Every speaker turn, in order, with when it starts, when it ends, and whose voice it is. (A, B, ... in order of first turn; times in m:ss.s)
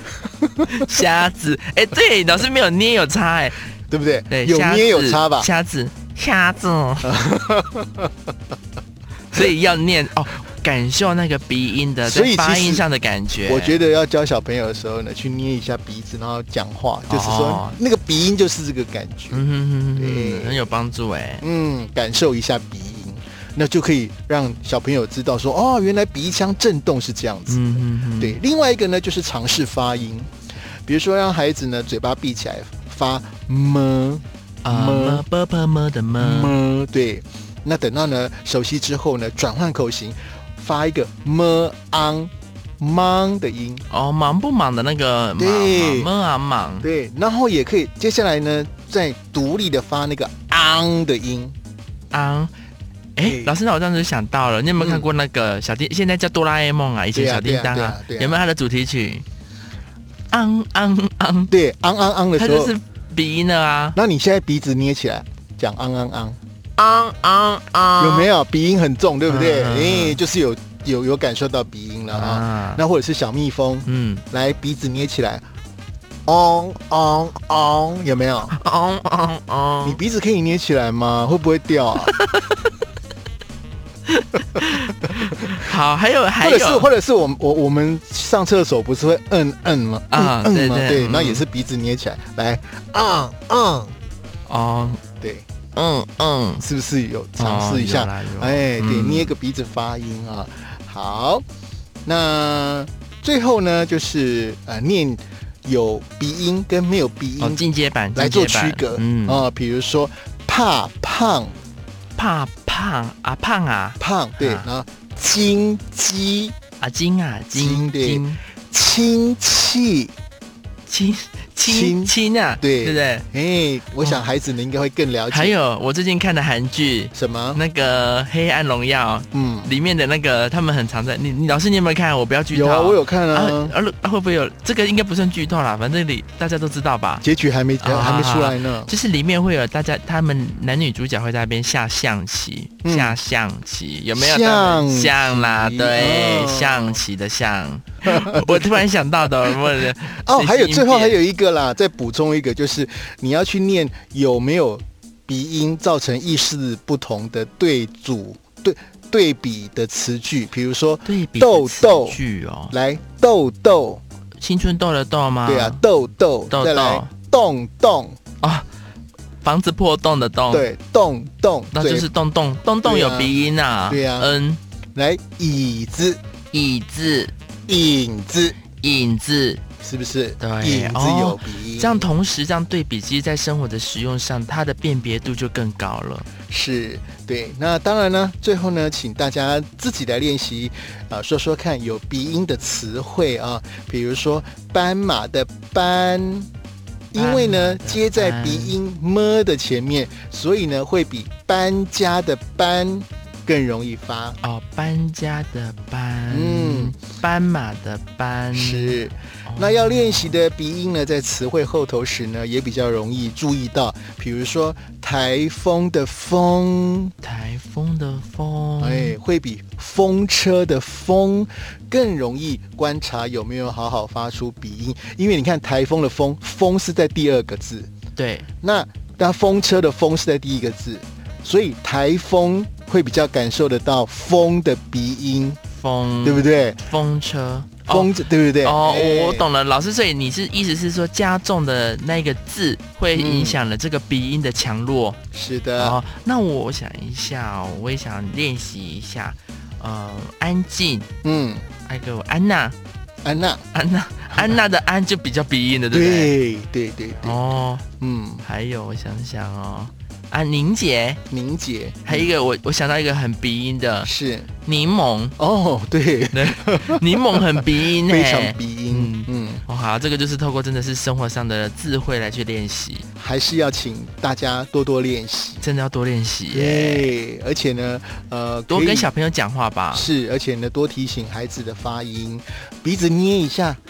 0:00.4-0:00.7 A
0:00.7-0:03.6 B
0:03.9-0:05.5 A
0:04.3-0:07.1 B
0:07.0-0:08.1 A
0:09.3-0:13.8 B
0:12.0-0:12.8 A
0:13.4-0:19.4 A
0:17.1-0:17.8 B
0:19.3-0:21.4 B
0:20.0-0:20.7 A
0:21.4-0:27.7 A
0:27.5-0:28.4 B
0:28.2-0:30.3 A
0:30.8-0:35.2 A
0:34.6-0:36.6 B
0:36.2-0:43.8 A
0:43.9-0:46.8 B
0:45.4-0:46.1 A
0:46.8-0:51.5 A
0:52.1-0:52.5 B
0:53.2-0:59.2 B
0:53.2-0:53.6 A
0:54.8-0:55.1 A
0:57.1-0:58.4 A
1:00.3-1:01.5 B
1:01.5-1:02.7 A
1:02.4-1:04.0 B
1:03.9-1:06.4 A
1:06.8-1:08.3 B
1:08.0-1:15.4 A
1:09.3-1:10.2 B
1:12.1-1:12.8 B
1:13.8-1:14.2 B
1:16.3-1:18.6 A
1:18.5-1:20.0 B
1:19.8-1:22.1 A
1:22.1-1:22.7 B
1:24.1-1:26.9 B
1:26.4-1:33.9 A
1:30.1-1:31.4 B
1:34.5-1:35.0 B
1:35.2-1:35.4 A
1:35.7-1:36.6 B
1:36.6-1:41.4 A
1:37.4-1:39.3 B
1:42.0-1:51.5 A
1:47.4-1:49.5 B
1:52.2-1:54.7 B
1:54.0-1:56.6 A
1:56.8-1:58.4 B
1:57.5-2:00.1 A
2:00.9-2:03.2 B
2:01.6-2:05.6 A
2:05.3-2:17.2 B
2:07.1-2:07.6 A
2:09.3-2:09.7 A
2:12.5-2:13.7 A
2:17.2-2:18.9 A
2:17.8-2:31.2 B
2:22.8-2:23.2 A
2:24.1-2:27.0 A
2:28.0-2:28.8 A
2:30.2-2:42.2 A
2:41.0-2:42.7 B
2:42.7-2:44.0 A
2:44.4-2:45.8 B
2:45.4-2:48.2 A
2:46.5-2:47.1 B
2:48.4-2:48.7 B
2:49.4-2:50.7 B
2:50.5-2:52.1 A
2:51.7-2:54.6 B
2:52.8-2:53.3 A
2:53.9-2:54.3 A
2:54.9-2:56.2 A
2:56.5-2:57.3 B
2:57.7-2:58.6 A
2:58.7-2:59.6 B
2:59.8-3:02.1 A
3:00.4-3:06.3 B
3:06.5-3:16.5 A
3:17.1-3:24.4 A
3:17.1-3:18.8 B
3:24.4-3:30.4 B
3:26.3-3:26.9 A
3:28.5-3:37.1 A
3:37.2-3:39.2 B
3:38.8-3:47.9 A
3:48.2-3:48.5 B
3:48.6-3:55.6 A
3:55.7-3:58.1 B
3:56.2-3:56.8 A
3:57.8-3:59.5 A
3:58.6-4:05.2 B
4:03.1-4:03.6 A
4:05.3-4:06.0 A
4:05.8-4:11.1 B
4:11.2-4:11.7 A
4:11.8-4:12.8 B
4:13.2-4:13.6 A
4:13.7-4:16.3 B
4:15.9-4:17.4 A
4:17.2-4:17.9 B
4:18.0-4:18.4 A
4:18.4-4:21.2 B
4:21.3-4:22.3 A
4:22.0-4:24.1 B
4:24.0-4:24.5 A
4:24.6-4:25.4 B
4:25.4-4:29.6 A
4:26.3-4:33.0 B
4:33.2-4:35.6 A
4:35.6-4:37.1 B
4:36.5-4:39.1 A
4:38.7-4:40.1 B
4:39.9-4:43.8 A